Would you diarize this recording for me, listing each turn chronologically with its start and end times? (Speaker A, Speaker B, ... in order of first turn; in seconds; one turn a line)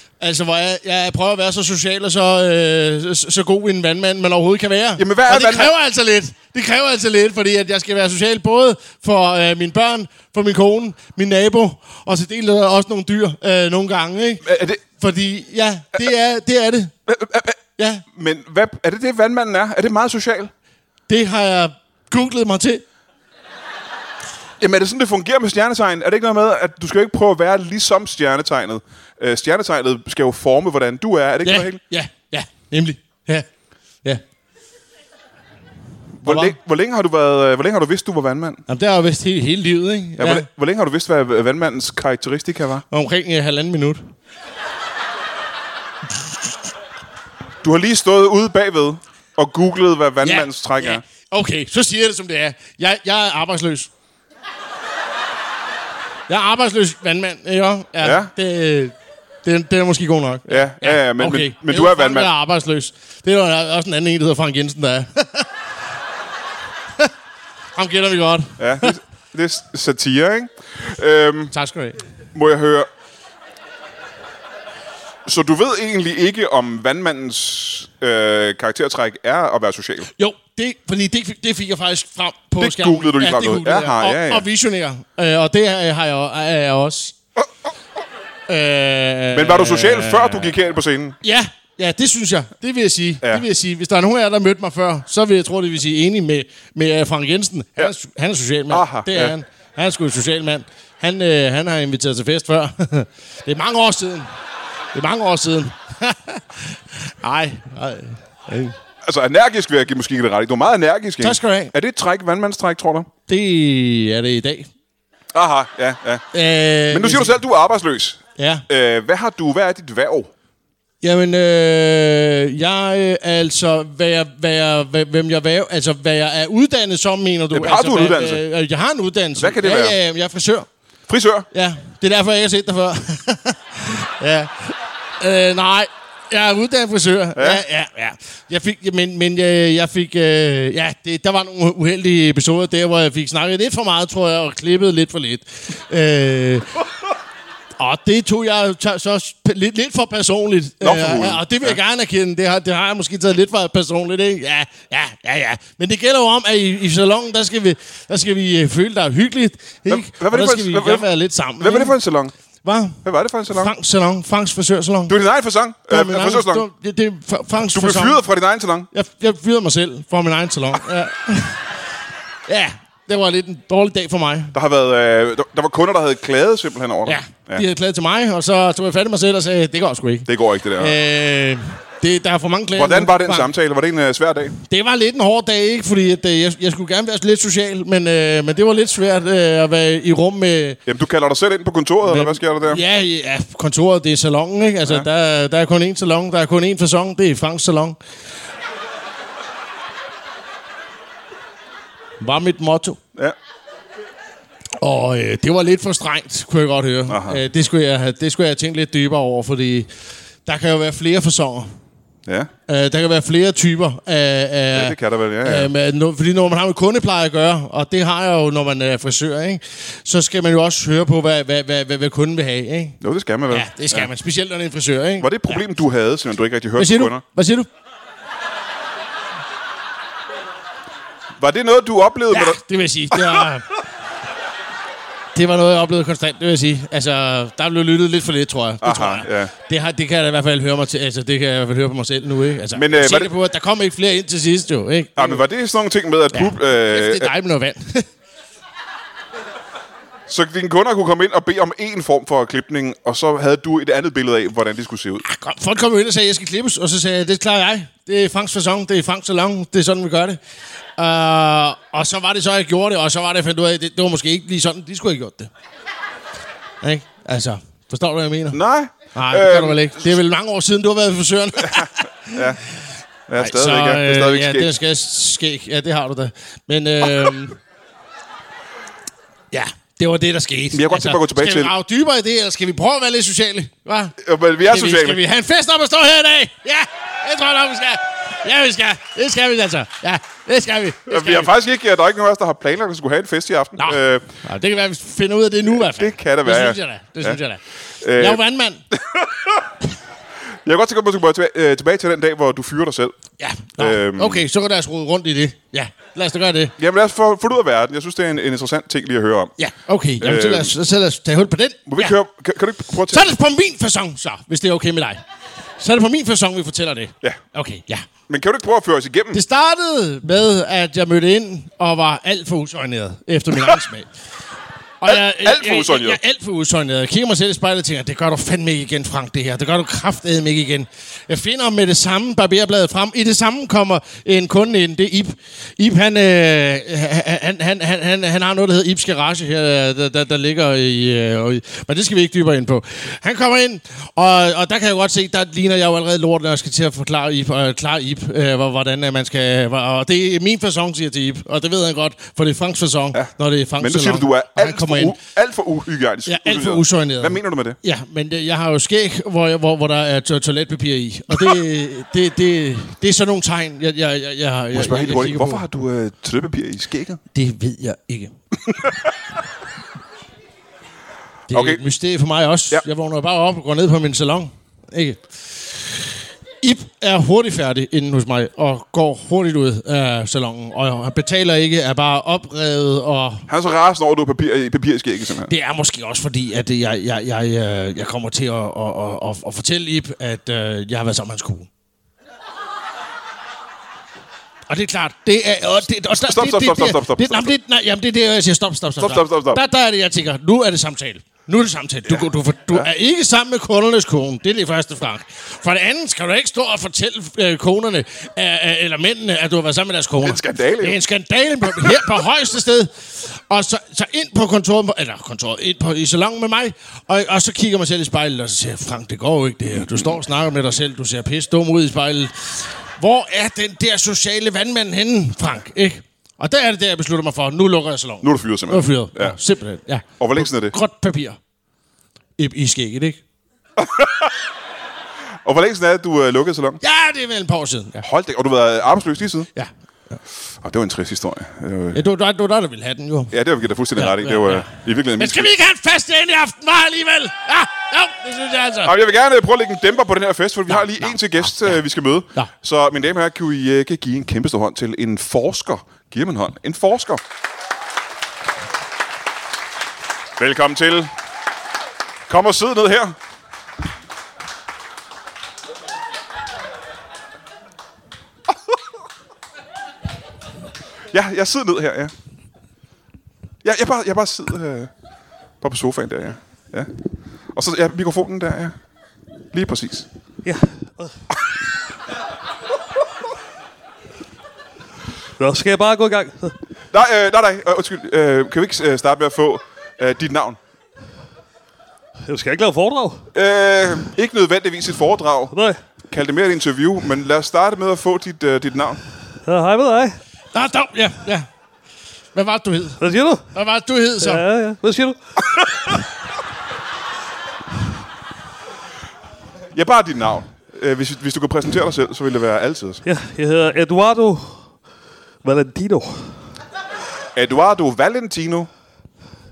Speaker A: 0.2-14.5
Speaker B: 5.0-5.7
Speaker B: 14.4-14.8
Speaker A: 15.0-16.9
Speaker B: 17.1-17.6
Speaker A: 17.8-18.0
Speaker B: 18.1-20.5
Speaker A: 21.1-22.8
Speaker B: 24.6-31.8
Speaker A: 31.4-33.5
Speaker B: 36.2-38.6
Speaker A: 36.2-36.5
Speaker A: 38.7-40.5
Speaker B: 40.2-42.9
Speaker A: 42.9-44.0
Speaker B: 47.6-51.0
Speaker A: 50.2-53.9
Speaker A: 56.3-65.5
Speaker B: 58.0-58.3
Speaker B: 60.5-62.3
Speaker A: 67.8-69.0
Speaker B: 68.6-71.5
Speaker A: 71.5-72.0
Speaker B: 72.3-72.9
Speaker B: 75.3-80.1
Speaker A: 80.1-87.2
Speaker B: 82.6-84.5
Speaker A: 88.5-90.5
Speaker B: 89.3-91.2
Speaker A: 91.2-104.3
Speaker B: 98.7-99.3
Speaker A: 104.9-108.8
Speaker B: 109.0-113.1
Speaker A: 111.2-111.7
Speaker A: 113.3-114.7
Speaker B: 115.3-116.2
Speaker A: 116.3-117.3
Speaker B: 116.9-120.3
Speaker A: 118.4-118.6
Speaker A: 121.0-130.7
Speaker B: 127.5-128.4
Speaker B: 129.4-130.0
Speaker B: 131.1-131.5
Speaker A: 131.5-146.8
Speaker B: 137.4-137.6
Speaker A: 147.8-161.9
Speaker B: 150.8-151.8
Speaker B: 159.9-161.1
Speaker B: 161.6-162.3
Speaker A: 162.6-165.2
Speaker B: 163.0-163.7
Speaker B: 165.1-166.7
Speaker A: 165.9-168.2
Speaker B: 167.7-168.9
Speaker A: 168.9-171.7
Speaker A: 172.5-174.6
Speaker B: 174.5-177.7
Speaker A: 177.1-183.5
Speaker B: 180.3-181.0
Speaker B: 182.7-184.6
Speaker A: 184.6-190.8
Speaker B: 190.9-192.8
Speaker A: 192.0-198.0
Speaker A: 202.2-203.0
Speaker A: 204.8-209.9
Speaker B: 207.1-207.4
Speaker A: 210.5-211.7
Speaker B: 212.3-212.5
Speaker A: 212.7-223.0
Speaker B: 214.7-215.7
Speaker B: 223.0-224.1
Speaker A: 223.5-225.6
Speaker B: 225.2-227.2
Speaker A: 226.8-227.7
Speaker B: 231.4-233.5
Speaker A: 232.3-233.7
Speaker A: 235.3-245.4
Speaker B: 238.8-239.5
Speaker B: 242.7-243.3
Speaker B: 245.2-247.3
Speaker A: 246.3-248.1
Speaker B: 250.3-255.2
Speaker A: 255.2-260.4
Speaker A: 261.0-265.5
Speaker A: 266.8-268.6
Speaker B: 268.5-270.2
Speaker A: 269.1-272.4
Speaker B: 271.6-272.6
Speaker B: 273.3-274.7
Speaker A: 273.4-277.6
Speaker A: 279.5-291.5
Speaker B: 280.7-281.7
Speaker B: 284.2-285.2
Speaker B: 291.1-294.3
Speaker A: 293.8-297.6
Speaker B: 295.7-297.4
Speaker B: 298.0-299.7
Speaker A: 298.2-298.8
Speaker B: 300.6-303.2
Speaker A: 303.4-306.8
Speaker B: 303.8-304.4
Speaker B: 306.8-309.5
Speaker A: 309.6-312.2
Speaker B: 310.2-310.7
Speaker B: 311.9-313.3
Speaker A: 313.1-315.2
Speaker A: 315.8-318.1
Speaker B: 318.3-319.4
Speaker A: 319.3-324.1
Speaker A: 325.0-355.2
Speaker B: 325.1-326.2
Speaker B: 353.1-357.8
Speaker A: 356.3-365.6
Speaker B: 364.7-367.2
Speaker A: 367.3-368.3
Speaker B: 368.7-369.1
Speaker A: 371.5-376.1
Speaker B: 371.5-371.8
Speaker A: 376.6-383.5
Speaker B: 383.5-385.5
Speaker A: 385.5-391.7
Speaker A: 394.7-431.4
Speaker B: 396.1-397.5
Speaker B: 399.0-399.6
Speaker B: 402.1-402.9
Speaker B: 410.2-411.0
Speaker B: 419.8-420.1
Speaker B: 428.2-429.4
Speaker B: 430.2-430.8
Speaker A: 432.4-433.2
Speaker B: 433.8-434.4
Speaker B: 435.4-436.8
Speaker A: 436.8-438.0
Speaker B: 438.0-439.5
Speaker B: 440.6-442.0
Speaker A: 441.9-443.3
Speaker B: 443.3-445.5
Speaker A: 444.0-448.9
Speaker B: 448.8-457.2
Speaker A: 450.7-451.6
Speaker B: 460.4-461.1
Speaker B: 462.3-463.2
Speaker B: 471.1-472.1
Speaker B: 473.6-474.9
Speaker B: 475.6-476.9
Speaker B: 477.5-478.8
Speaker B: 479.5-480.1
Speaker C: 480.4-481.2
Speaker C: 485.4-486.6
Speaker B: 486.9-490.6
Speaker C: 492.3-493.3
Speaker B: 493.3-495.5
Speaker C: 495.5-495.8
Speaker B: 496.1-499.0
Speaker C: 499.4-500.2
Speaker A: 500.5-501.5
Speaker A: 502.4-503.0
Speaker C: 503.0-503.5
Speaker A: 503.5-504.4
Speaker C: 504.2-505.2
Speaker B: 509.7-513.0
Speaker C: 513.0-514.7
Speaker C: 515.4-516.4
Speaker B: 517.4-518.7